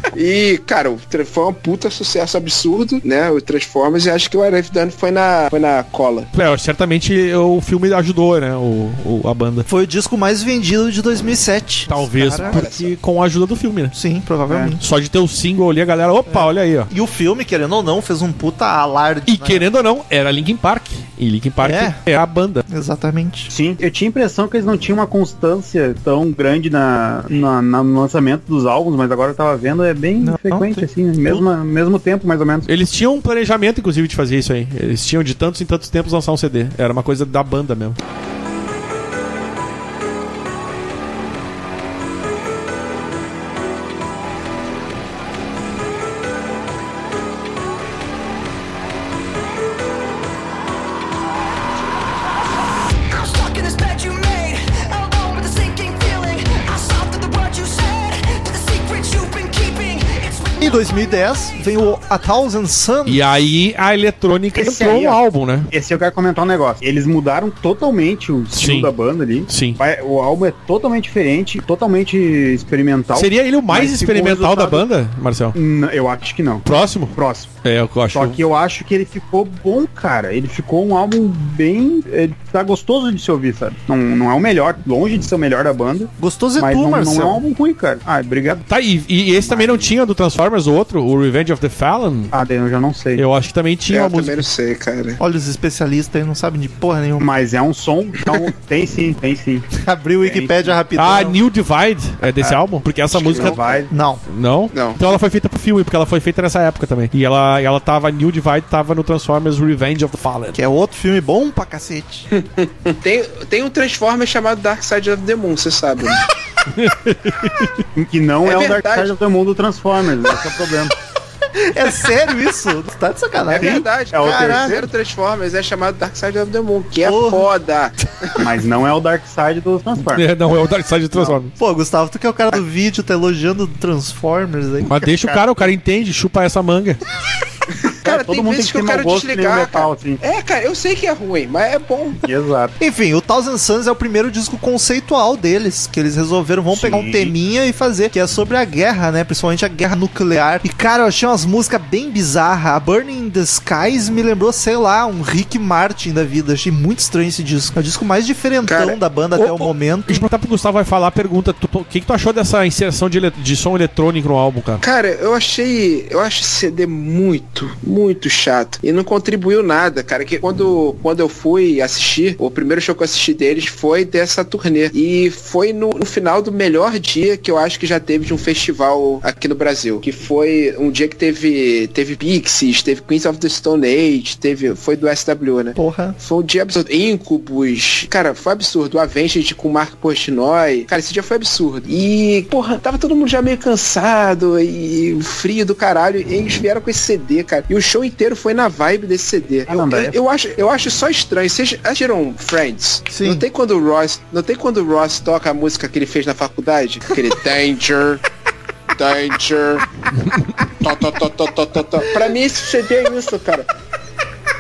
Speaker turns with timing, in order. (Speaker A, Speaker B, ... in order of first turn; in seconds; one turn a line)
Speaker A: 0.1-6.3
Speaker B: 6.3-9.7
Speaker C: 9.7-12.6
Speaker B: 11.9-13.9
Speaker A: 12.4-12.9
Speaker C: 13.9-14.8
Speaker D: 14.5-14.8
Speaker B: 14.8-16.9
Speaker C: 16.3-19.7
Speaker B: 19.3-22.6
Speaker C: 21.6-22.0
Speaker C: 22.7-23.5
Speaker D: 23.5-32.7
Speaker C: 30.2-31.4
Speaker B: 32.7-38.0
Speaker E: 52.4-61.0
Speaker C: 60.6-63.3
Speaker B: 63.1-65.7
Speaker D: 64.5-74.9
Speaker B: 68.5-68.9
Speaker B: 69.5-69.8
Speaker B: 73.2-75.6
Speaker D: 75.5-77.5
Speaker B: 76.7-78.4
Speaker D: 78.1-88.7
Speaker C: 86.2-87.4
Speaker B: 88.7-92.3
Speaker D: 89.4-89.9
Speaker D: 92.3-93.2
Speaker B: 93.2-94.5
Speaker A: 93.9-95.2
Speaker C: 95.2-97.3
Speaker D: 97.2-99.7
Speaker C: 99.7-101.4
Speaker D: 100.2-100.8
Speaker B: 101.0-103.6
Speaker D: 102.4-103.9
Speaker C: 103.9-104.2
Speaker B: 104.3-110.6
Speaker A: 104.7-105.2
Speaker C: 110.5-112.3
Speaker A: 112.3-116.2
Speaker B: 116.7-117.8
Speaker D: 118.0-120.9
Speaker A: 118.4-119.1
Speaker C: 121.5-124.7
Speaker A: 123.5-128.4
Speaker D: 123.6-124.9
Speaker C: 127.0-127.5
Speaker D: 128.4-130.2
Speaker B: 130.1-131.5
Speaker C: 131.6-135.1
Speaker B: 134.9-137.0
Speaker D: 135.1-135.7
Speaker A: 137.8-142.3
Speaker D: 138.0-140.2
Speaker D: 142.2-142.8
Speaker C: 142.8-160.2
Speaker D: 146.7-147.3
Speaker A: 158.6-159.0
Speaker B: 159.4-164.8
Speaker A: 164.8-208.2
Speaker C: 185.8-186.2
Speaker D: 199.7-200.2
Speaker C: 203.1-203.4
Speaker A: 208.9-209.9
Speaker B: 210.2-210.5
Speaker A: 210.7-213.7